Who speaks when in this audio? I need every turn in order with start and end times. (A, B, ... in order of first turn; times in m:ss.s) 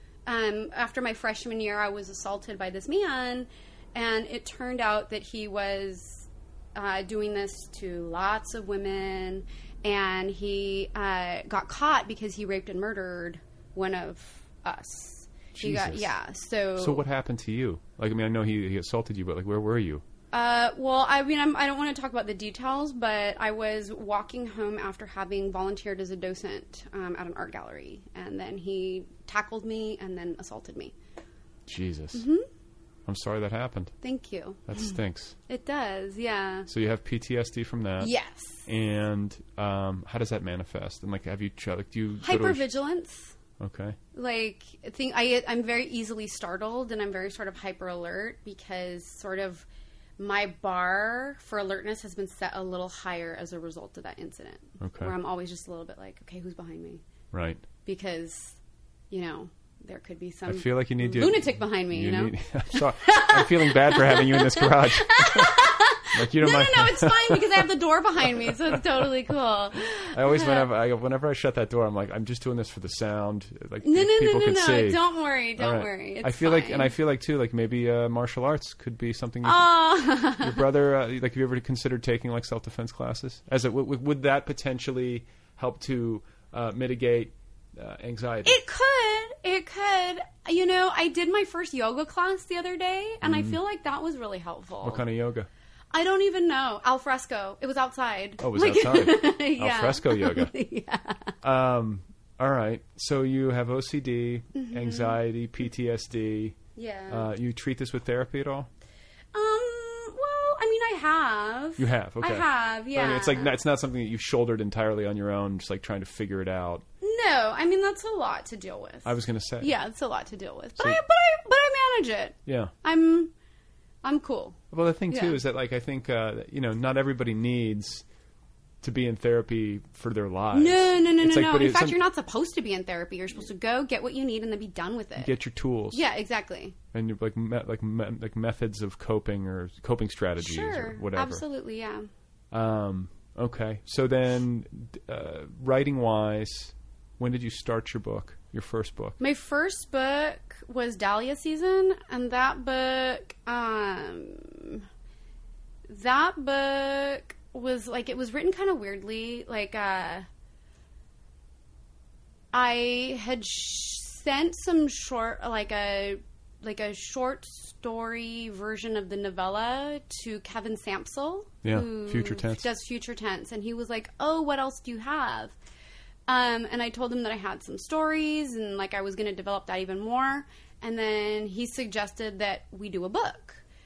0:00.2-0:17.0 A
0:15.6-0:16.0 B
0:16.8-0:20.0 B
0:20.3-0:30.9 A
0:31.7-0:32.2 B
0:32.1-0:32.5 A
0:33.1-0:33.9 B
0:34.0-0:34.8 A
0:34.7-0:35.3 B
0:35.5-0:36.7 A
0:36.7-0:38.1 B
0:38.0-0:38.7 A
0:38.7-0:42.6 B
0:42.2-0:43.4 A
0:43.6-0:44.0 B
0:44.1-0:49.6 A
0:50.2-0:57.0 A
0:54.8-0:55.1 B
0:57.3-0:57.6 B
0:57.8-0:58.6 A
0:59.1-1:10.7 A
1:00.5-1:05.6 B
1:06.1-1:07.4 B
1:10.1-1:15.0 B
1:13.8-1:16.9 A
1:15.6-1:19.6 B
1:19.4-1:20.6 A
1:20.4-1:28.6 B
1:28.4-1:35.0 A
1:33.2-1:33.5 B
1:34.8-1:35.5 B
1:35.9-1:41.3 A
1:38.4-1:40.5 B
1:41.4-1:46.6 B
1:44.5-1:45.2 A
1:46.8-1:47.3 A
1:47.1-1:48.7 B
1:49.3-1:53.6 A
1:51.8-1:56.8 B
1:57.0-2:03.3 A
1:59.0-1:59.7 B
2:02.5-2:02.7 B
2:04.0-2:05.4 A
2:04.7-2:08.0 B
2:08.8-2:12.0 B
2:10.5-2:15.3 A
2:15.2-2:16.0 B
2:15.9-2:16.8 A
2:16.9-2:21.4 B
2:20.4-2:22.1 A
2:22.5-2:29.2 B
2:29.2-2:34.8 A
2:35.9-2:40.2 A
2:42.5-2:55.5 A
2:51.6-2:52.6 B
2:56.3-3:03.6 A